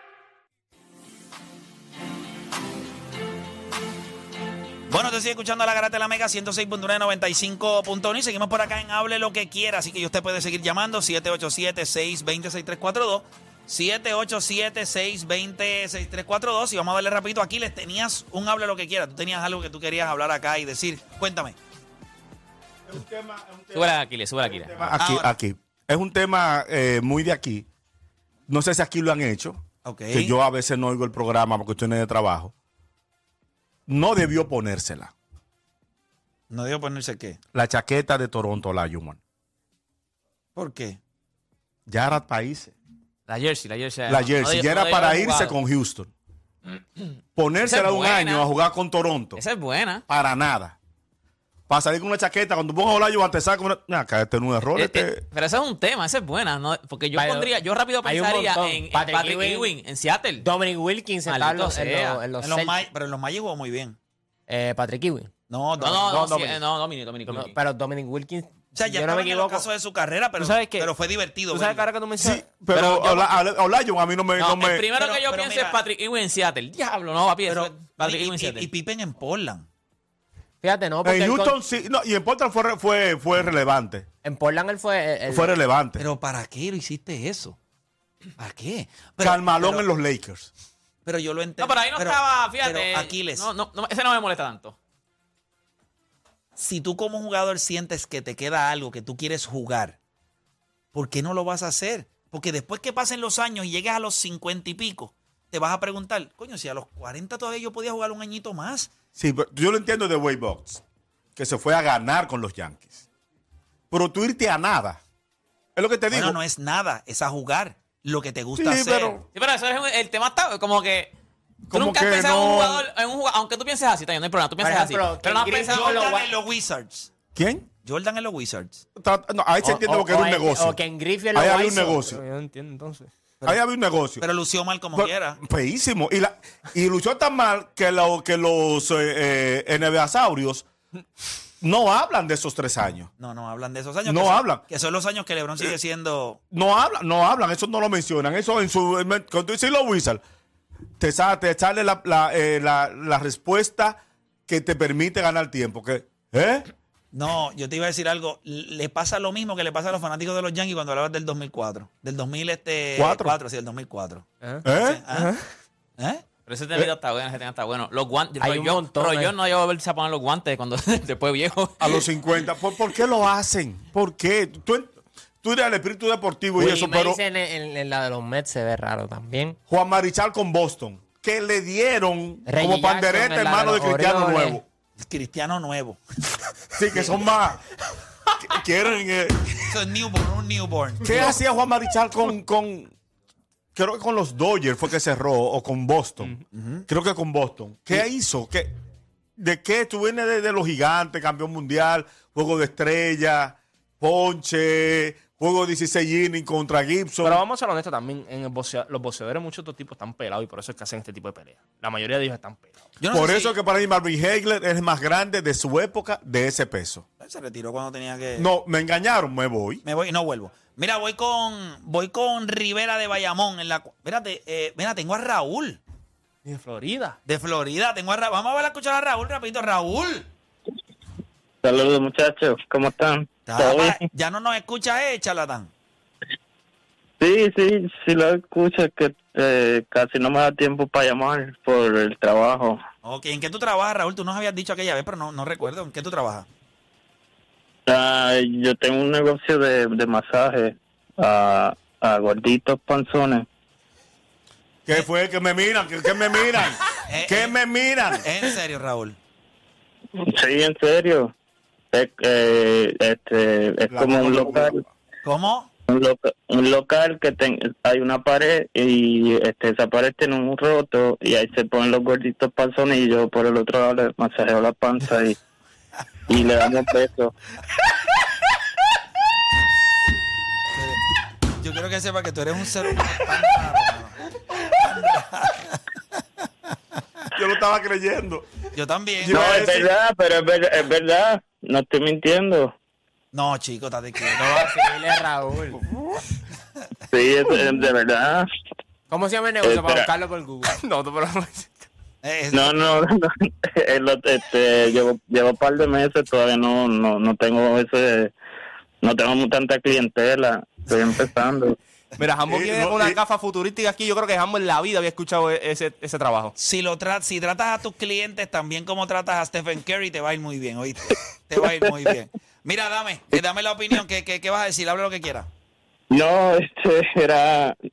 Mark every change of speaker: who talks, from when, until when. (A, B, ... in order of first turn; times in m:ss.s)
0:04.9-0:21.6 A
0:22.9-0:27.7 B
0:23.7-0:25.0 C
0:25.0-0:25.3 A
0:28.5-0:29.6 B
0:29.8-0:30.3 A
0:30.1-0:32.5 B
0:33.9-0:35.1 B
0:36.5-0:37.4 A
0:37.5-0:39.2 B
0:40.6-0:41.0 A
0:41.9-0:42.7 B
0:43.3-0:45.6 C
0:44.1-0:46.1 B
0:46.8-0:47.1 C
0:47.4-0:49.4 B
0:47.6-0:48.5 C
0:49.3-0:50.0 C
0:50.1-0:50.8 B
0:51.7-0:55.2 B
0:54.7-1:00.5 C
0:57.2-0:57.5 D
0:58.0-0:59.7 D
1:00.4-1:02.9 D
1:01.3-1:02.2 C
1:02.4-1:04.0 A
1:04.5-1:05.3 D
1:05.5-1:06.3 A
1:05.8-1:07.5 C
1:07.3-1:09.7 D
1:08.7-1:11.9 A
1:10.4-1:13.4 E
1:12.2-1:14.9 B
1:14.4-1:18.7 C
1:15.0-1:15.8 A
1:17.5-1:19.7 A
1:20.6-1:21.6 D
1:21.0-1:24.1 B
1:24.2-1:25.6 D
1:25.3-1:26.1 B
1:26.0-1:27.6 A
1:28.4-1:29.8 A
1:29.2-1:30.5 B
1:31.0-1:33.5 A
1:31.6-1:34.8 C
1:36.6-1:40.0 A
1:40.9-1:48.9 A
1:49.2-1:50.8 B
1:51.4-1:53.0 B
1:53.9-1:55.0 B
1:55.8-1:56.4 B
1:56.1-1:59.2 A
1:58.6-1:59.2 B
1:59.3-2:01.1 C
2:01.7-2:02.9 B
2:01.7-2:06.2 C
2:04.6-2:06.2 D
2:05.7-2:07.1 A
2:07.4-2:07.7 B
2:07.8-2:08.8 A
2:09.0-2:10.8 B
2:09.6-2:12.2 D
2:11.3-2:12.2 B
2:12.1-2:13.1 E
2:13.4-2:14.2 B
2:14.2-2:15.4 A
2:15.0-2:20.7 B
2:21.6-2:23.1 B
2:23.2-2:26.4 A
2:24.1-2:24.6 B
2:26.5-2:30.2 B
2:31.0-2:36.7 B
2:37.1-2:45.3 A
2:43.0-2:43.4 B
2:44.4-2:45.5 E
2:44.6-2:45.0 B
2:46.0-2:46.2 A
2:46.5-2:52.1 C
2:48.4-2:49.3 D
2:51.8-2:57.2 B
2:56.6-2:59.6 D
2:59.7-3:04.6 B
3:02.5-3:04.6 D
3:05.0-3:06.0 A
3:06.7-3:07.6 B
3:06.9-3:07.2 A
3:08.4-3:09.8 B
3:09.7-3:11.4 A
3:11.0-3:12.9 B
3:13.8-3:16.4 B
3:16.5-3:16.8 A
3:16.9-3:18.7 B
3:19.4-3:27.4 B
3:27.2-3:32.8 E
3:33.0-3:33.6 A
3:33.1-3:37.0 B
3:37.2-3:38.5 A
3:38.4-3:39.8 B
3:39.8-3:45.8 A
3:46.4-3:47.2 E
3:47.3-3:50.3 A
3:51.6-3:54.0 F
3:53.5-3:55.7 A
3:57.2-4:02.8 F
4:03.0-4:06.5 A
4:07.9-4:13.5 F
4:14.9-4:18.3 B
4:17.1-4:17.6 A
4:18.2-4:19.2 A
4:20.2-4:21.3 F
4:21.9-4:24.8 F
4:23.9-4:24.8 B
4:25.2-4:25.7 A
4:25.9-4:35.4 F
4:36.3-4:37.3 F
4:40.7-4:41.0 A
4:41.6-4:45.8 A
4:47.3-4:48.5 B
4:48.7-4:49.7 A
4:49.2-4:49.9 B
4:49.3-4:52.7 F
4:53.3-4:54.4 A
4:54.4-4:55.8 D
4:57.1-4:58.5 F
4:59.1-5:00.8 D
4:59.6-5:00.1 F
5:00.7-5:01.9 E
5:02.2-5:03.0 A
5:02.5-5:08.3 F
5:09.0-5:11.8 F
5:12.2-5:16.5 E
5:12.5-5:13.2 B
5:16.6-5:25.5 A
5:26.1-5:27.8 F